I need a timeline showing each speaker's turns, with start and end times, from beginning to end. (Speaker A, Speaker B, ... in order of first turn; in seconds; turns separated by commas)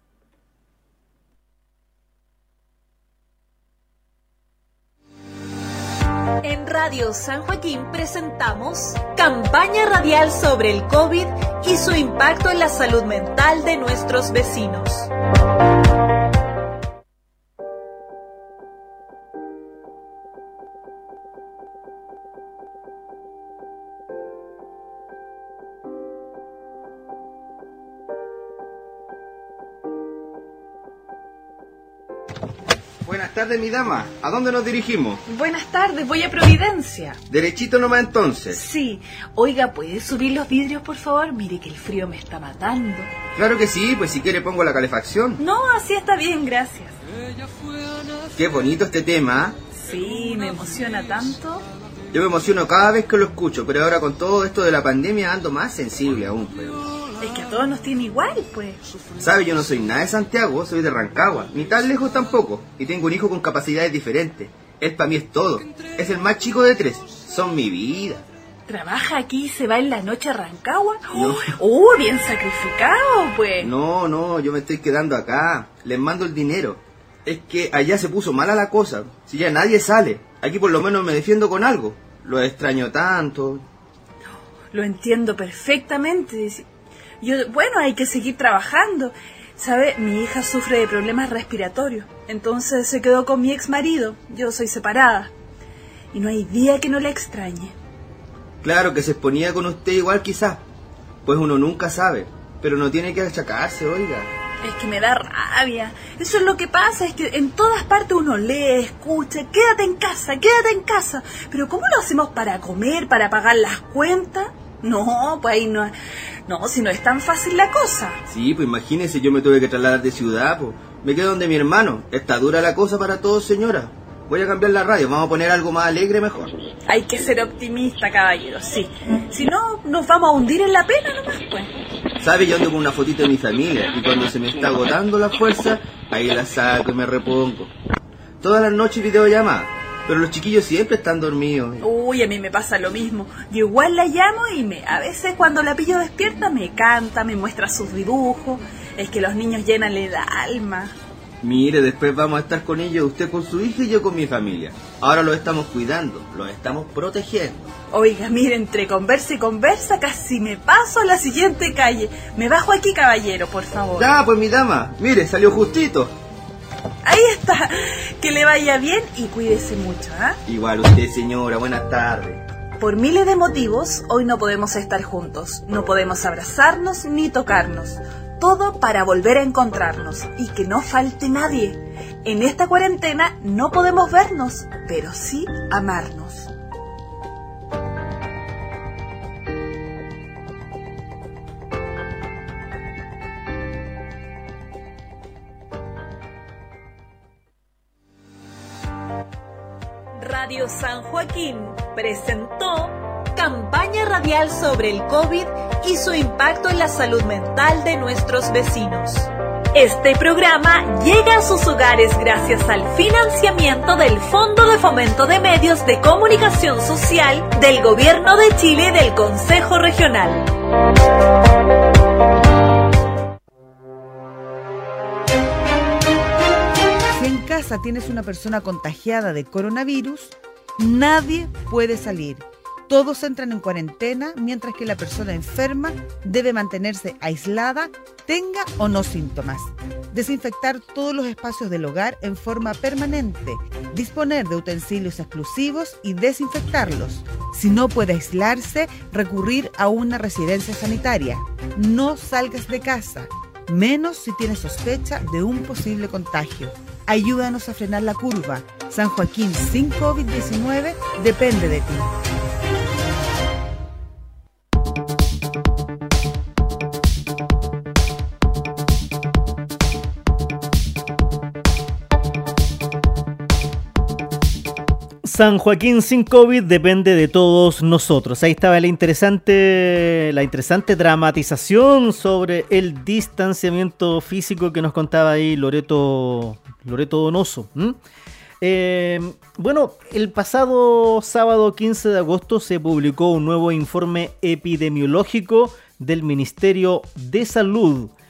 Speaker A: 6.4-15.1, Speaker B: 33.0-35.2, Speaker C: 35.3-37.2, Speaker B: 37.3-38.6, Speaker C: 38.5-43.1, Speaker B: 43.4-45.4, Speaker C: 45.4-47.0, Speaker B: 48.4-49.6, Speaker C: 49.7-51.6, Speaker B: 52.1-57.1, Speaker C: 57.1-58.8, Speaker B: 59.2-68.2, Speaker C: 68.7-73.7, Speaker B: 71.1-71.6, Speaker B: 73.6-83.7, Speaker C: 84.7-86.7, Speaker C: 87.2-95.3, Speaker C: 96.1-97.7, Speaker B: 98.6-100.6, Speaker B: 101.2-104.3, Speaker C: 104.6-115.9, Speaker C: 116.5-118.2, Speaker B: 118.3-126.6, Speaker C: 126.9-131.7, Speaker B: 132.2-137.7, Speaker B: 138.4-141.8, Speaker C: 141.8-150.9, Speaker B: 151.4-157.7, Speaker C: 157.9-164.1, Speaker B: 163.9-166.1, Speaker C: 167.0-170.4, Speaker B: 170.5-172.4, Speaker C: 172.8-186.5, Speaker A: 200.2-220.5, Speaker D: 227.1-262.1, Speaker E: 275.2-288.0, Speaker E: 288.6-298.1